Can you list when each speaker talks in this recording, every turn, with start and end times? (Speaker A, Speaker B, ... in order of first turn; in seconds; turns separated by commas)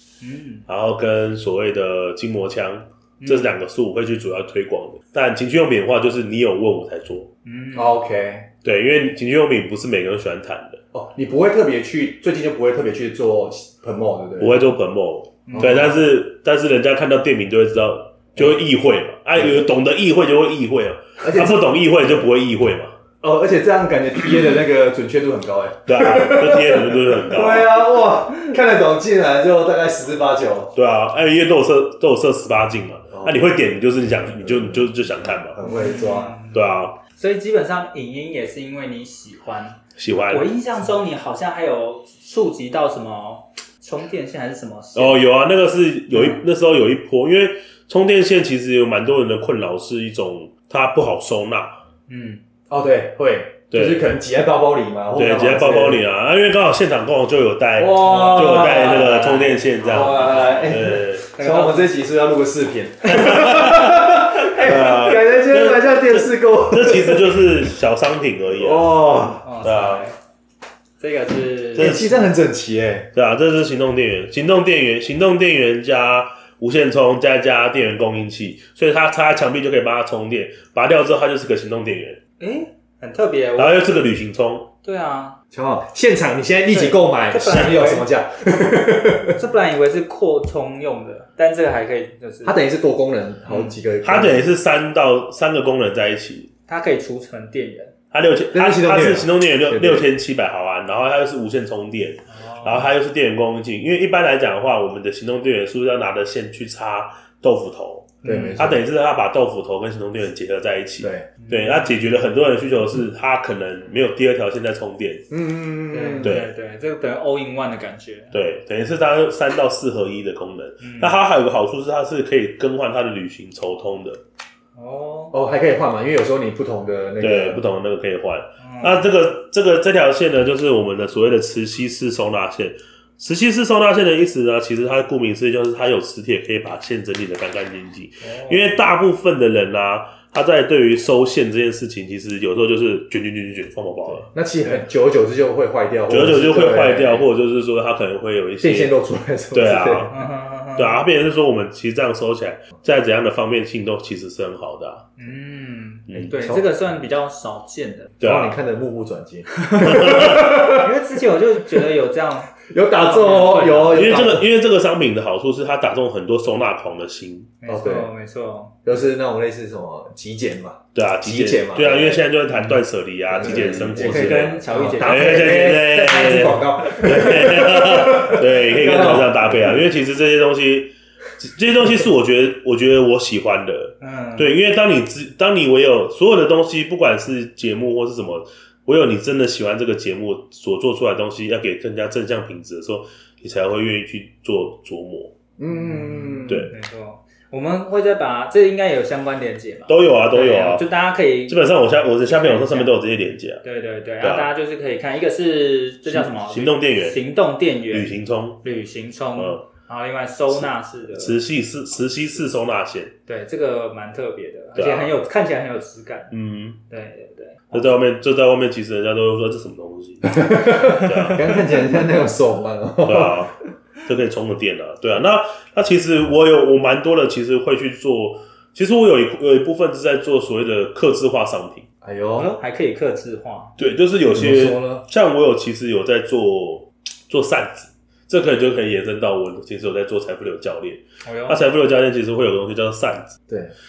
Speaker A: 0.2-0.6, Speaker B: 0.7-7.3, Speaker A: 3.2-3.5, Speaker A: 7.4-8.0, Speaker C: 7.7-8.5, Speaker B: 8.6-10.8, Speaker C: 10.9-14.6, Speaker B: 14.4-22.9, Speaker A: 15.5-15.9, Speaker C: 15.5-16.0, Speaker C: 21.2-22.3, Speaker C: 23.2-30.7, Speaker B: 25.9-27.8, Speaker B: 30.7-35.6, Speaker C: 33.1-33.5, Speaker C: 34.4-36.4, Speaker A: 35.6-45.2, Speaker B: 36.5-37.0, Speaker B: 40.0-40.5, Speaker B: 44.9-51.8, Speaker A: 46.1-46.4, Speaker A: 52.1-52.4, Speaker C: 52.7-56.0, Speaker B: 53.7-54.1, Speaker B: 55.1-61.3, Speaker C: 57.8-67.5, Speaker A: 58.0-60.7, Speaker A: 61.3-61.9, Speaker B: 63.0-69.0, Speaker C: 68.5-69.5, Speaker A: 69.4-70.2, Speaker B: 69.6-70.0, Speaker A: 71.0-72.2, Speaker B: 71.7-72.2, Speaker C: 71.8-73.1, Speaker B: 73.1-82.2, Speaker A: 82.4-83.9, Speaker B: 83.6-84.7, Speaker A: 84.8-85.4, Speaker C: 85.5-89.4, Speaker A: 86.7-88.1, Speaker A: 89.2-92.6, Speaker C: 92.4-94.5, Speaker A: 93.5-93.7, Speaker B: 94.0-96.5, Speaker A: 96.7-97.9, Speaker B: 98.1-115.2, Speaker C: 98.5-100.1, Speaker A: 102.3-102.9, Speaker A: 108.2-108.7, Speaker C: 108.2-108.8, Speaker C: 111.0-111.3, Speaker A: 111.4-111.9, Speaker C: 115.3-116.4, Speaker A: 115.9-118.3, Speaker B: 116.2-116.5, Speaker B: 118.3-124.2, Speaker A: 120.8-121.1, Speaker A: 124.8-125.3, Speaker C: 125.3-127.6, Speaker B: 127.2-144.3, Speaker A: 128.6-129.1, Speaker A: 138.2-138.7, Speaker C: 144.3-147.3, Speaker B: 146.1-148.9, Speaker C: 148.6-150.1, Speaker B: 149.5-150.1, Speaker A: 150.1-151.0, Speaker B: 150.8-155.1, Speaker A: 155.2-158.1, Speaker C: 156.1-156.7, Speaker B: 158.2-158.6, Speaker C: 158.2-160.9, Speaker B: 159.8-160.7, Speaker A: 159.9-164.2, Speaker C: 162.7-164.5, Speaker B: 163.9-167.5, Speaker A: 167.6-168.7, Speaker C: 167.7-168.1, Speaker C: 168.8-172.3, Speaker B: 170.9-195.3, Speaker A: 172.5-172.8, Speaker C: 173.3-179.8, Speaker A: 173.5-175.9, Speaker A: 184.0-184.5, Speaker C: 195.6-196.7, Speaker A: 195.7-201.6, Speaker B: 199.9-200.9, Speaker B: 201.5-203.6, Speaker A: 202.3-202.9, Speaker A: 203.6-211.4, Speaker B: 204.2-204.5, Speaker B: 206.1-207.2, Speaker B: 207.9-208.6, Speaker B: 209.4-209.6, Speaker B: 210.5-213.1, Speaker A: 213.3-216.3, Speaker B: 214.7-215.2, Speaker B: 216.3-216.8, Speaker A: 216.9-218.0, Speaker B: 217.7-221.6, Speaker C: 220.2-223.5, Speaker B: 223.0-231.8, Speaker C: 232.0-232.5, Speaker A: 232.3-233.7, Speaker B: 233.8-243.4, Speaker C: 234.3-235.0, Speaker A: 241.2-241.6, Speaker C: 243.5-243.7